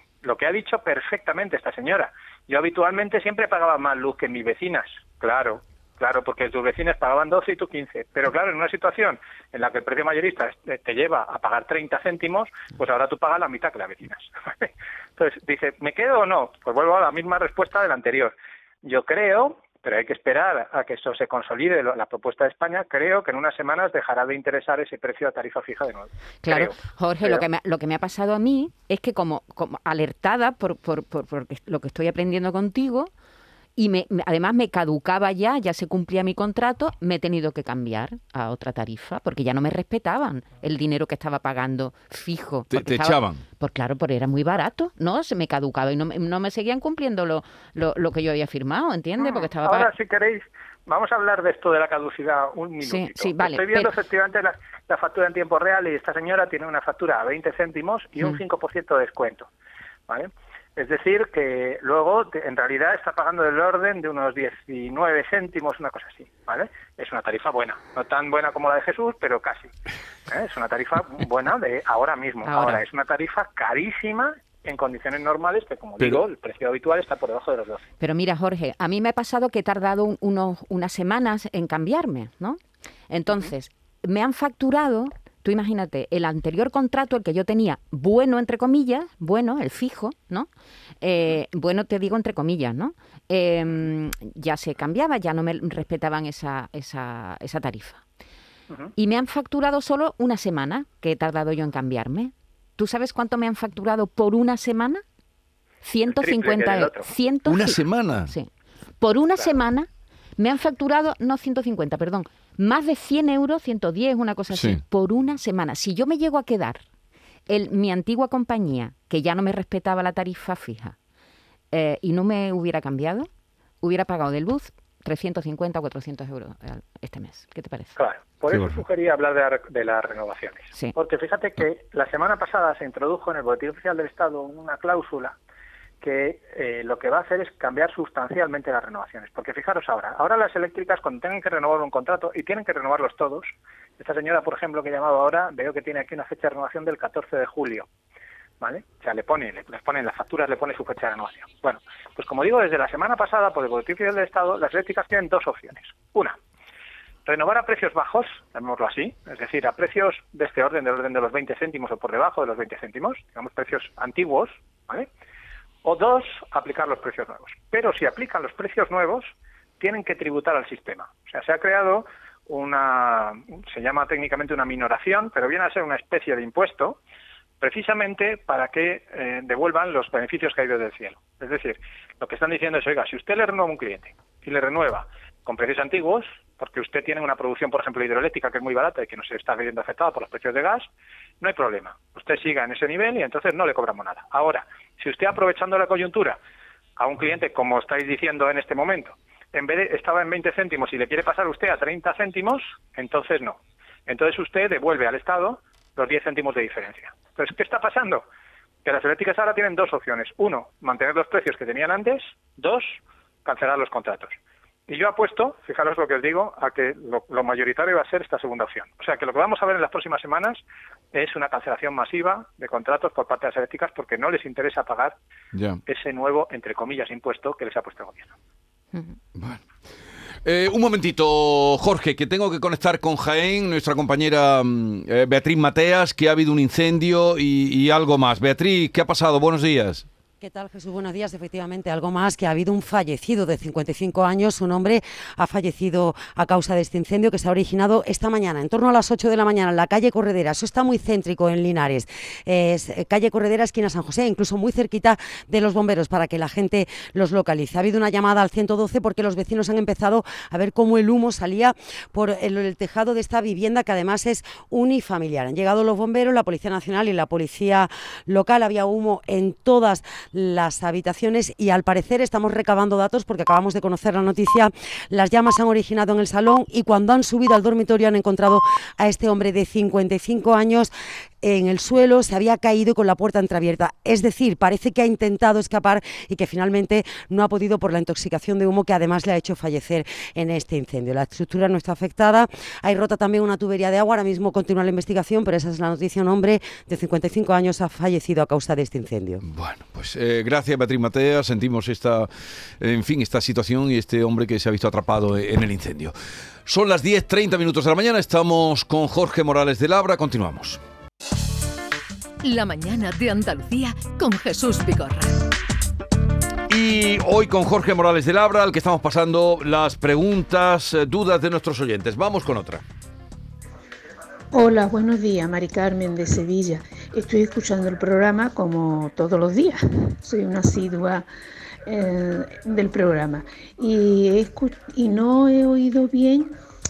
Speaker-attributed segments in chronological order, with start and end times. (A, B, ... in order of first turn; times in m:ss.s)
0:00.2-0:18.3 A
0:18.8-0:27.4 A
0:26.4-0:33.1 B
0:33.8-0:49.9 B
0:42.7-0:43.4 C
0:49.2-0:59.5 A
0:52.8-0:53.9 B
1:00.1-1:09.7 A
1:10.3-1:17.9 A
1:12.4-1:12.8 B
1:18.0-1:22.6 B
1:23.1-1:30.5 B
1:31.0-1:38.0 B
1:39.0-1:45.0 B
1:45.8-1:48.5 B
1:46.1-1:47.1 A
1:47.5-1:48.3 C
1:49.0-1:56.8 B
1:54.5-1:54.8 C
1:57.5-2:01.0 B
2:01.7-2:03.3 B
2:03.8-2:07.9 B
2:08.0-2:15.4 A
2:08.5-2:08.8 C
2:16.0-2:27.9 A
2:28.6-2:36.4 A
2:37.3-2:45.1 A
2:45.8-2:57.0 A
2:57.6-3:10.9 A
3:11.4-3:16.4 A
3:17.0-3:28.2 A
3:28.8-3:34.4 A
3:34.9-3:40.6 A
3:41.1-3:45.2 A
3:45.5-3:45.8 C
3:45.9-3:48.3 A
3:49.4-3:49.6 C
3:50.4-4:00.1 C
4:00.4-4:40.9 D
4:41.4-4:59.4 D
4:59.4-5:06.1 C
5:06.6-5:10.8 C
5:12.4-5:15.5 E
5:16.7-5:22.8 C
5:24.5-5:31.3 F
5:31.9-5:36.5 F